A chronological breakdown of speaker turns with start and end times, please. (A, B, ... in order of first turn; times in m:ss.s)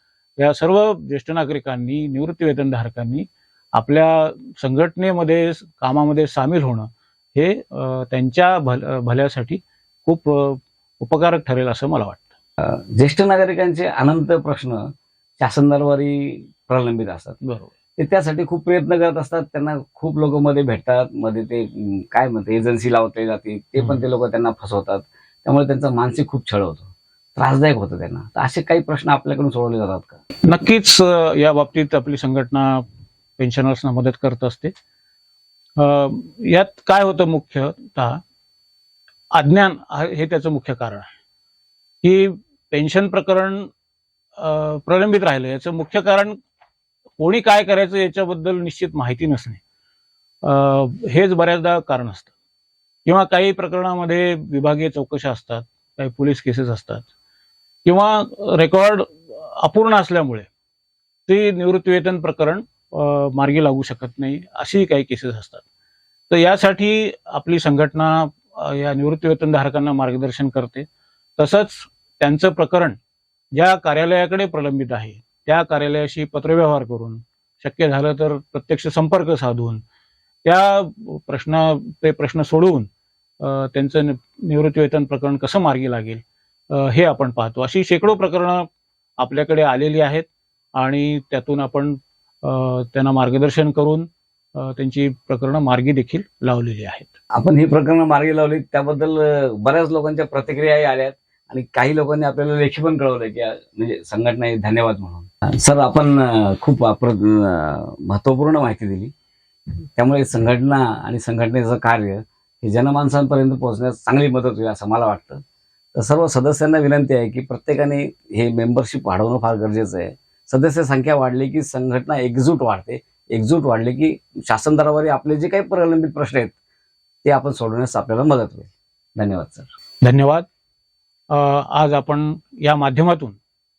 0:00.4-0:12.3 A
0:12.6-0:14.8 B
0:15.4-0:17.4 B
0:17.4-0:17.7 A
0:18.0-0:30.2 B
0:30.4-0:32.8 A
0:33.4-0:34.7 A
0:35.8-0:38.2 A
0:39.3-0:41.1 A
0:42.0-0:43.7 A
0:44.4-0:46.4 A
0:47.2-0:49.6 A
0:50.4-0:52.3 A
0:53.1-0:57.1 A
0:57.8-1:00.5 A
1:01.3-1:05.6 A
1:06.3-1:10.9 A
1:11.4-1:13.0 A
1:13.5-1:19.8 A
1:20.4-1:22.9 A
1:23.4-1:28.7 A
1:29.2-1:37.1 A
1:37.4-1:49.1 B
1:50.0-1:55.4 B
1:55.9-2:06.5 B
2:07.2-2:09.7 B
2:10.0-2:10.5 A
2:11.3-2:13.4 A